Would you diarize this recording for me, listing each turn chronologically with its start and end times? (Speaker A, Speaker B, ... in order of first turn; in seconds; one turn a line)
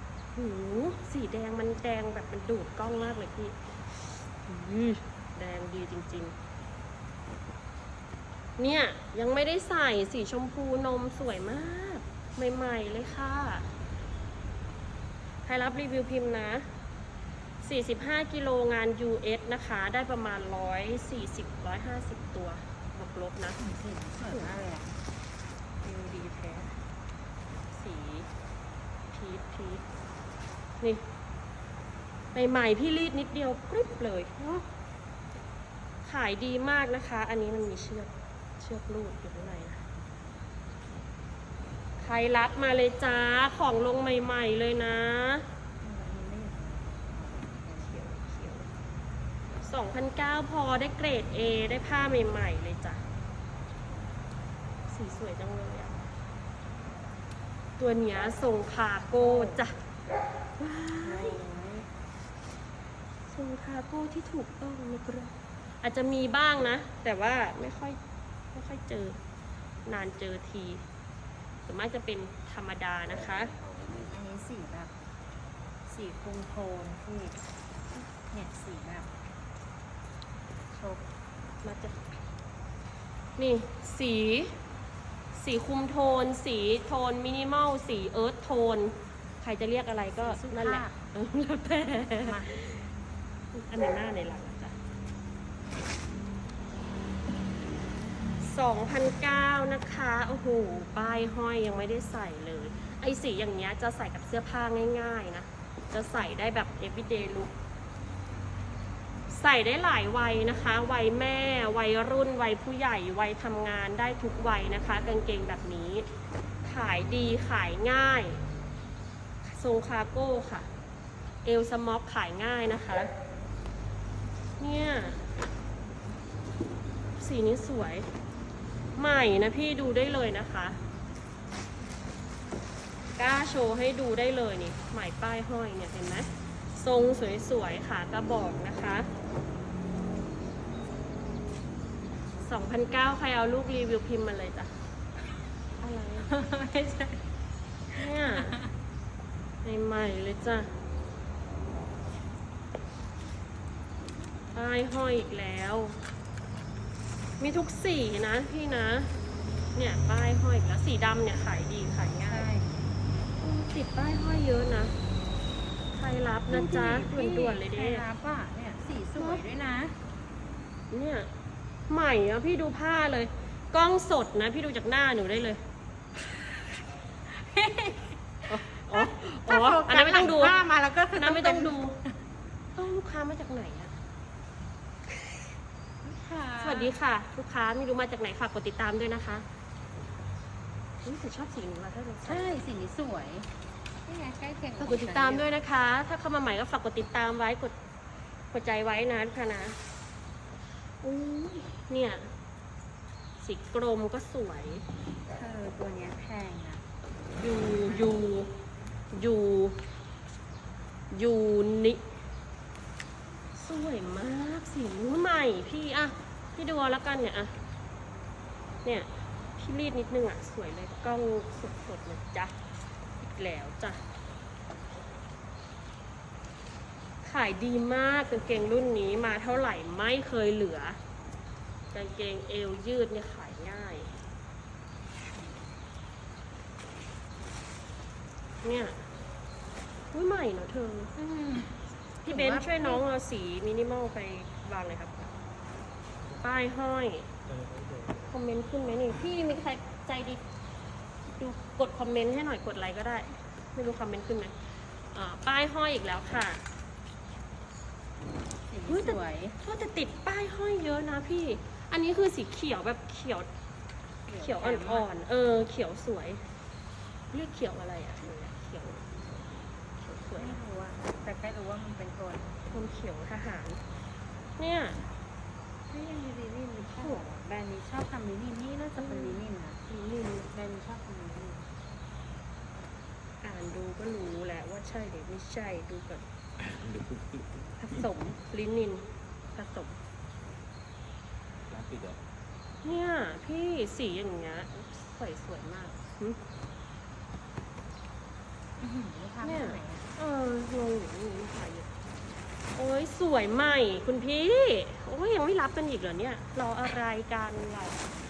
Speaker A: 0.3-6.3
Speaker A: 8.6-13.7
Speaker A: 15.4-16.7
Speaker A: 17.6-23.6
Speaker B: 23.6-24.9
Speaker A: 24.2-24.5
Speaker A: 25.8-26.8
Speaker A: 27.7-28.3
Speaker A: 29.1-29.8
Speaker A: 32.3-34.6
Speaker A: 36.0-39.8
Speaker A: 42.0-45.5
Speaker B: 45.8-48.0
Speaker A: 47.8-48.7
Speaker A: 49.6-53.0
Speaker A: 54.9-56.0
Speaker A: 57.8-59.8
Speaker B: 59.1-59.6
Speaker A: 60.6-61.4
Speaker B: 61.0-61.9
Speaker A: 63.3-68.0
Speaker A: 68.5-69.2
Speaker A: 69.9-70.8
Speaker A: 71.7-73.5
Speaker B: 74.1-74.9
Speaker B: 75.9-77.4
Speaker B: 78.3-79.1
Speaker B: 80.7-81.0
Speaker A: 81.6-82.1
Speaker A: 83.4-84.5
Speaker A: 85.3-92.9
Speaker B: 90.2-91.0
Speaker B: 92.2-92.5
Speaker A: 93.5-94.8
Speaker A: 98.4-107.5
Speaker A: 109.3-116.1
Speaker A: 116.6-118.4
Speaker A: 119.4-120.7
Speaker A: 121.5-123.1
Speaker A: 124.6-125.3
Speaker A: 127.2-128.1
Speaker A: 129.0-130.8
Speaker A: 133.2-139.1
Speaker A: 142.4-144.7
Speaker A: 145.8-146.3
Speaker B: 146.3-147.2
Speaker B: 147.9-148.7
Speaker A: 148.0-148.6
Speaker A: 149.6-150.7
Speaker A: 154.5-156.0
Speaker A: 157.4-159.1
Speaker A: 159.8-162.5
Speaker B: 162.2-162.7
Speaker A: 163.4-164.9
Speaker A: 165.9-168.1
Speaker B: 166.5-169.9
Speaker A: 169.2-169.4
Speaker A: 170.9-171.3
Speaker A: 171.9-175.6
Speaker B: 177.3-181.8
Speaker A: 178.5-180.6
Speaker A: 181.1-182.0
Speaker A: 182.8-183.9
Speaker A: 185.1-185.5
Speaker B: 186.1-187.0
Speaker A: 186.6-189.4
Speaker A: 191.0-192.5
Speaker B: 192.2-193.5
Speaker B: 194.1-195.5
Speaker A: 194.8-197.8
Speaker A: 198.5-199.8
Speaker A: 201.0-202.3
Speaker A: 203.4-204.9
Speaker B: 205.3-206.8
Speaker A: 207.4-208.5
Speaker B: 207.8-208.2
Speaker A: 209.1-209.8
Speaker A: 211.1-212.0
Speaker A: 213.6-217.5
Speaker A: 218.8-222.5
Speaker A: 223.2-224.0
Speaker A: 227.2-231.0
Speaker A: 231.9-234.1
Speaker A: 238.6-239.0
Speaker A: 240.1-241.1
Speaker B: 241.2-243.0
Speaker A: 242.2-245.2
Speaker A: 246.4-247.3
Speaker C: 247.4-248.3
Speaker A: 248.3-250.4
Speaker A: 251.4-254.5
Speaker A: 255.1-256.6
Speaker B: 258.7-259.6
Speaker A: 258.9-263.5
Speaker B: 264.3-265.1
Speaker A: 264.4-266.4
Speaker A: 267.3-270.6
Speaker B: 270.3-272.6
Speaker A: 272.7-273.8
Speaker A: 274.6-275.1
Speaker B: 275.9-279.8
Speaker A: 276.9-277.2
Speaker A: 279.0-280.5
Speaker B: 280.5-281.6
Speaker A: 283.4-286.2
Speaker C: 286.6-288.1
Speaker A: 287.8-290.0
Speaker C: 291.7-292.2
Speaker A: 292.8-296.4
Speaker B: 298.8-300.1
Speaker A: 299.4-301.9
Speaker A: 302.8-308.1